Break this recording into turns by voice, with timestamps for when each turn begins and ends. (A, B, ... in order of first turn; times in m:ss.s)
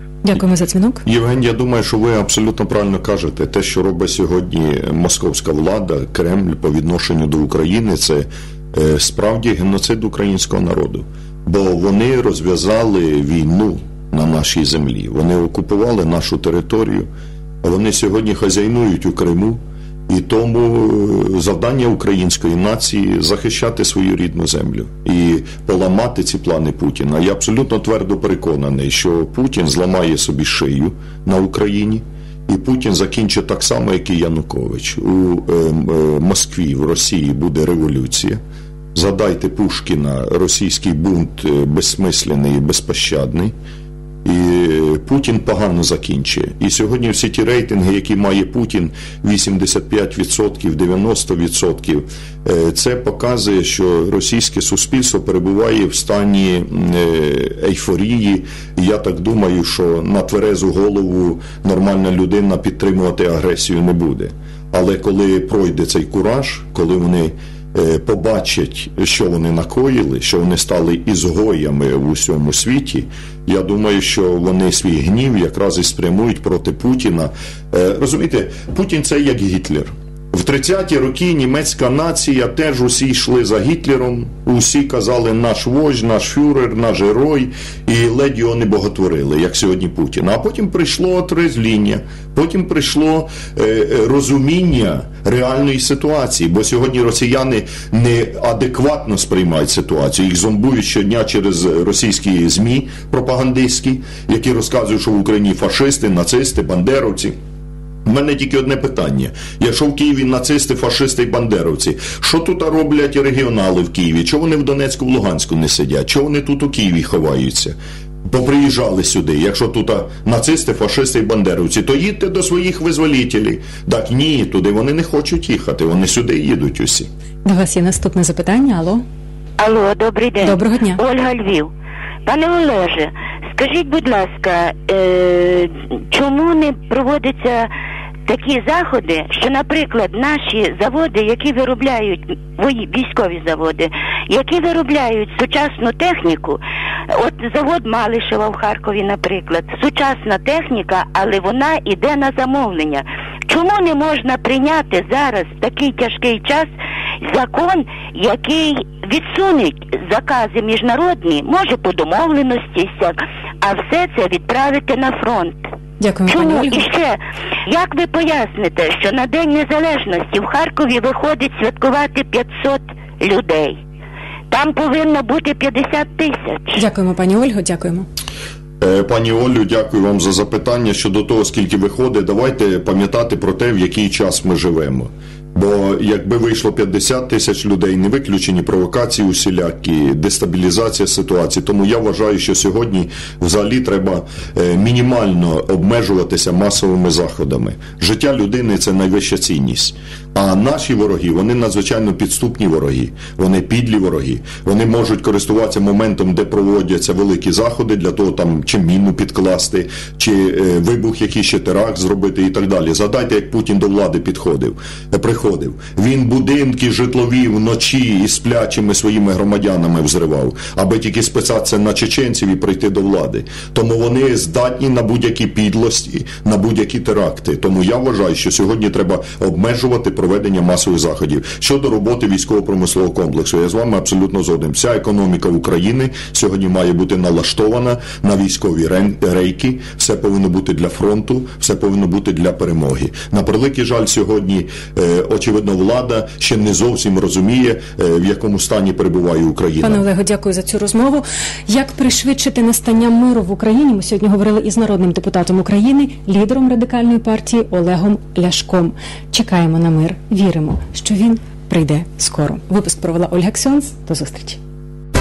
0:00.2-0:01.0 A
0:01.0-0:17.1 B
0:17.6-0:38.4 B
0:38.9-0:43.6 B
0:44.2-1:47.4 B
1:48.0-2:07.1 B
2:07.4-2:09.0 A
2:09.6-2:11.7 C
2:10.4-2:11.0 A
2:12.3-2:17.7 C
2:18.3-2:26.6 C
2:27.1-2:36.7 C
2:37.2-2:45.7 C
2:46.0-2:46.8 A
2:46.3-2:53.8 C
2:54.5-2:56.8 C
2:56.8-2:58.1 A
2:58.8-4:10.0 B
4:09.8-4:24.6 A